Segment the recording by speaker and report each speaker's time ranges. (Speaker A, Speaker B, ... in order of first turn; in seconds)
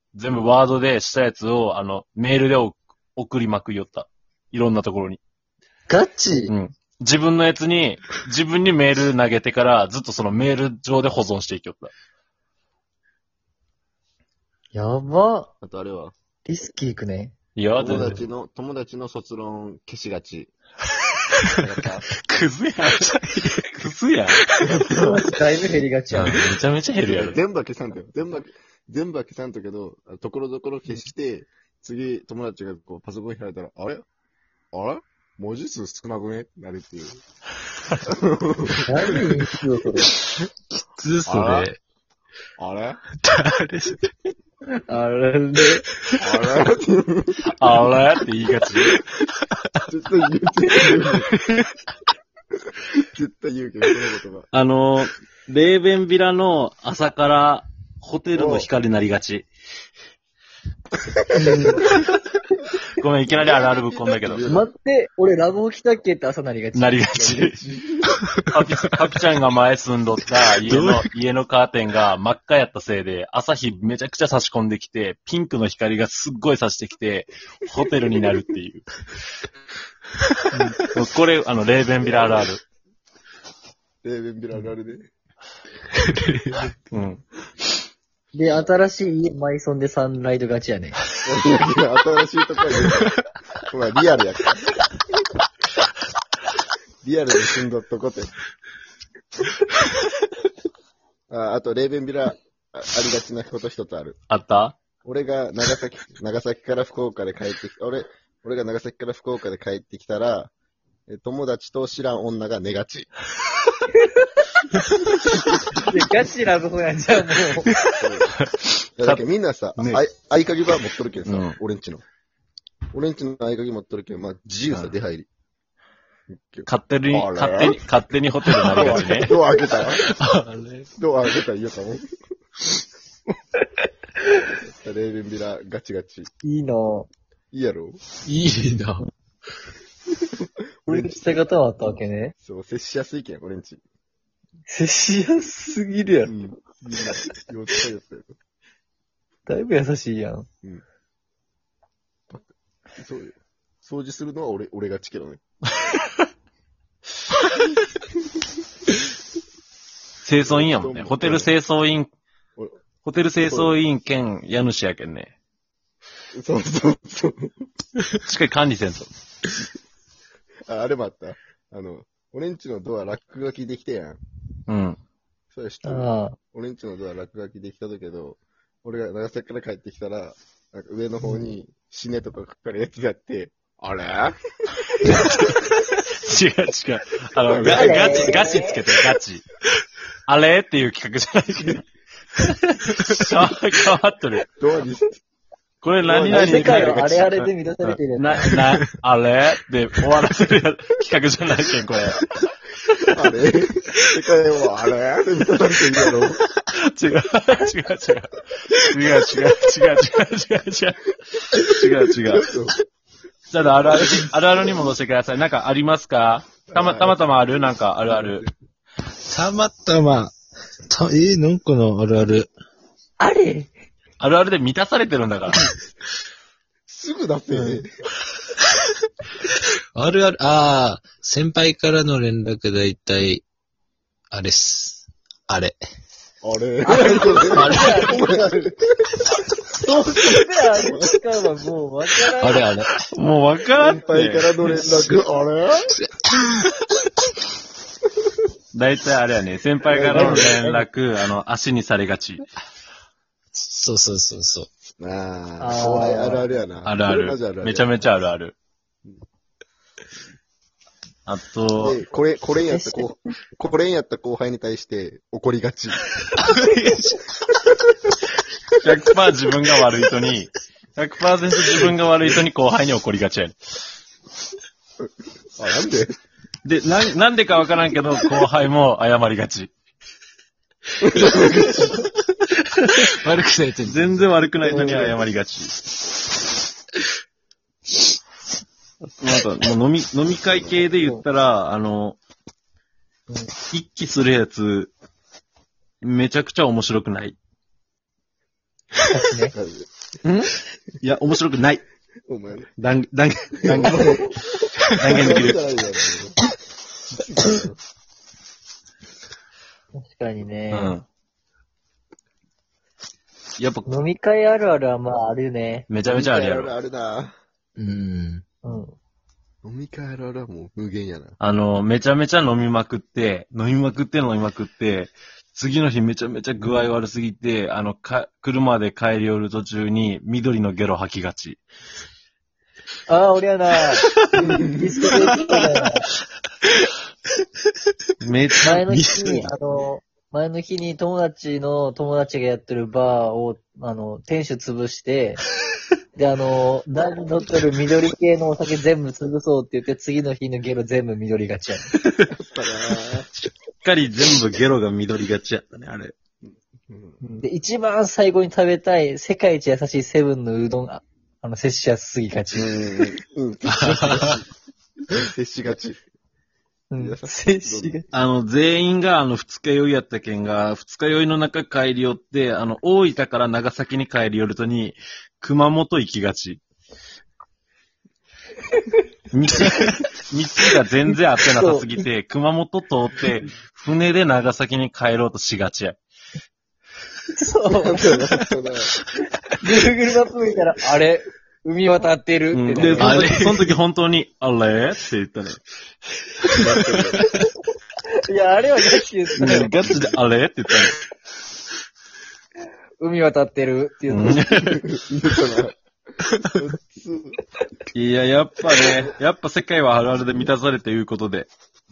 Speaker A: 0.1-5.2, 6.5-11.9, 17.6-18.2, 22.2-24.4, 26.1-27.4, 47.5-49.0, 54.5-59.5, 63.0-64.4, 66.7-67.6, 68.5-78.9, 80.9-82.6, 86.9-87.2, 104.3-104.8, 117.7-119.2, 119.8-120.0, 121.2-121.6, 126.7-129.3, 155.8-156.2, 160.2-162.1, 163.0-165.3, 168.2-169.1, 174.7-175.0, 185.0-189.4, 190.3-191.8, 192.4-194.5, 195.8-202.3, 206.7-212.5, 213.5-218.4, 224.2-225.6, 243.1-244.5, 248.7-252.5, 256.8-258.6, 261.2-262.0, 268.8-273.5, 276.6-279.7, 283.9-285.7, 289.2-292.2, 293.7-294.9, 296.0-297.4, 300.2-301.8, 302.8-305.6, 310.7-311.0, 313.6-313.9, 315.9-316.7, 321.4-331.6, 338.2-338.8, 352.0-352.3, 353.4-356.1, 368.1-376.6, 379.3-386.0, 392.5-395.6, 399.4-401.0, 404.1-404.8, 407.9-411.5
Speaker B: 5.9-6.5, 14.7-15.5, 16.4-17.3, 24.9-26.4, 38.9-40.1, 44.9-45.9, 61.4-61.8, 64.5-67.0, 88.3-91.0, 115.7-117.7, 136.4-137.1, 140.9-142.3, 144.7-146.3, 149.5-150.4, 175.8-176.4, 187.7-188.8, 196.3-198.5, 223.2-223.7, 227.5-227.8, 236.8-238.8, 239.7-242.7, 250.1-250.8, 255.6-256.5, 262.7-263.1, 299.1-299.5, 310.0-310.9, 313.9-315.9, 318.6-318.9, 333.1-336.1, 338.6-345.4, 346.2-351.9, 357.2-363.1, 366.9-368.1, 381.5-381.9, 387.3-388.2, 389.6-393.3, 398.3-399.8, 403.0-404.5
Speaker C: 15.6-16.1, 17.7-20.5, 21.6-22.1, 24.6-25.2, 27.1-34.0, 34.7-37.2, 38.1-38.9, 41.2-41.7, 42.6-43.0, 46.2-47.4, 49.9-51.4, 52.7-54.5, 58.3-58.7, 61.3-62.0, 63.3-64.7, 67.1-68.2, 84.0-85.1, 91.2-93.1, 93.7-94.9, 97.0-98.3, 101.3-104.2, 105.0-110.5, 111.1-113.1, 118.0-118.3, 119.0-122.0, 122.9-125.3, 126.3-127.8, 128.7-130.1, 131.0-132.1, 134.6-136.3, 137.5-138.0, 140.8-141.4, 142.4-143.8, 146.2-148.3, 153.0-155.4, 160.4-161.5, 163.4-163.8, 166.3-167.5, 170.7-174.2, 175.5-184.4, 187.4-188.4, 194.6-195.2, 196.0-197.0, 203.1-206.4, 212.3-212.8, 213.6-214.0, 216.7-218.5, 226.9-227.9, 236.4-238.6, 243.8-245.9, 249.8-250.6, 255.0-257.9, 261.8-266.1, 275.6-276.2, 281.0-282.0, 284.6-285.2, 299.5-299.9, 302.3-302.7, 303.6-304.3, 305.1-306.4, 307.1-307.8, 316.0-317.4, 319.6-321.4, 352.3-353.3, 356.9-357.2, 362.5-364.5, 365.1-366.0, 367.0-367.9, 387.7-388.9, 392.8-393.1, 396.5-397.2, 404.6-405.8, 406.4-407.4
Speaker D: 40.3-41.8, 43.2-44.1, 46.0-46.2, 49.2-49.8, 51.5-51.7, 70.6-71.0, 80.3-80.9, 85.9-86.8, 129.9-130.9, 138.2-139.1, 219.3-220.3, 220.9-222.5, 229.9-233.4, 234.3-235.8, 237.5-238.0, 242.4-243.0, 246.0-246.7, 253.6-254.7, 266.4-267.3, 282.7-284.2, 317.8-318.4, 335.1-335.7, 338.9-339.5, 363.7-364.4, 392.9-393.7, 396.5-397.2